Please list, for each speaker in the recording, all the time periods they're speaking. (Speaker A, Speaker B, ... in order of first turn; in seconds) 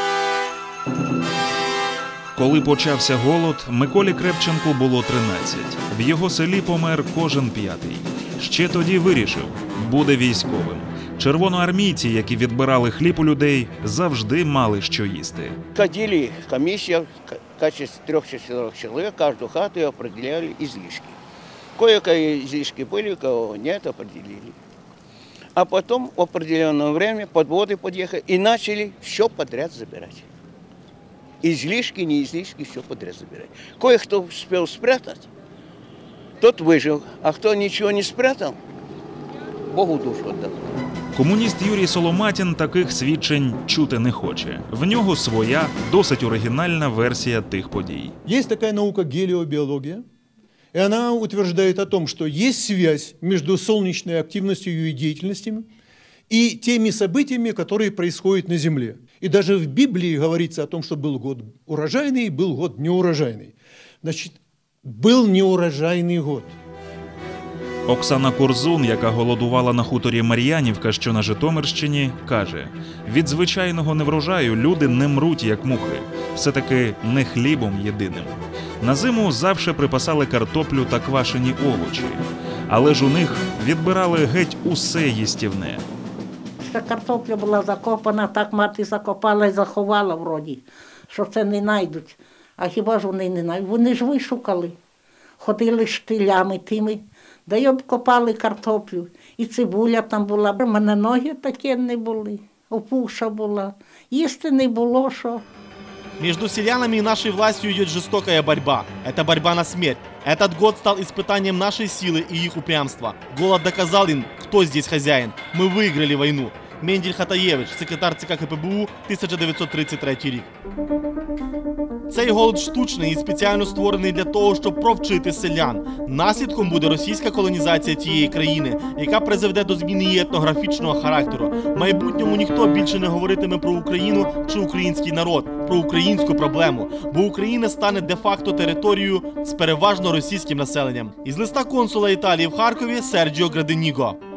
Speaker A: 2.3-15.6, 41.1-48.1, 67.9-85.8
Speaker B: 15.7-21.2, 21.8-24.6, 25.6-30.2, 31.4-35.3, 36.4-38.6, 39.7-40.6
Speaker C: 48.2-50.0, 50.7-55.7, 56.3-66.5
Speaker D: 86.6-94.8, 95.4-105.4
Speaker E: 106.2-120.5, 122.1-144.2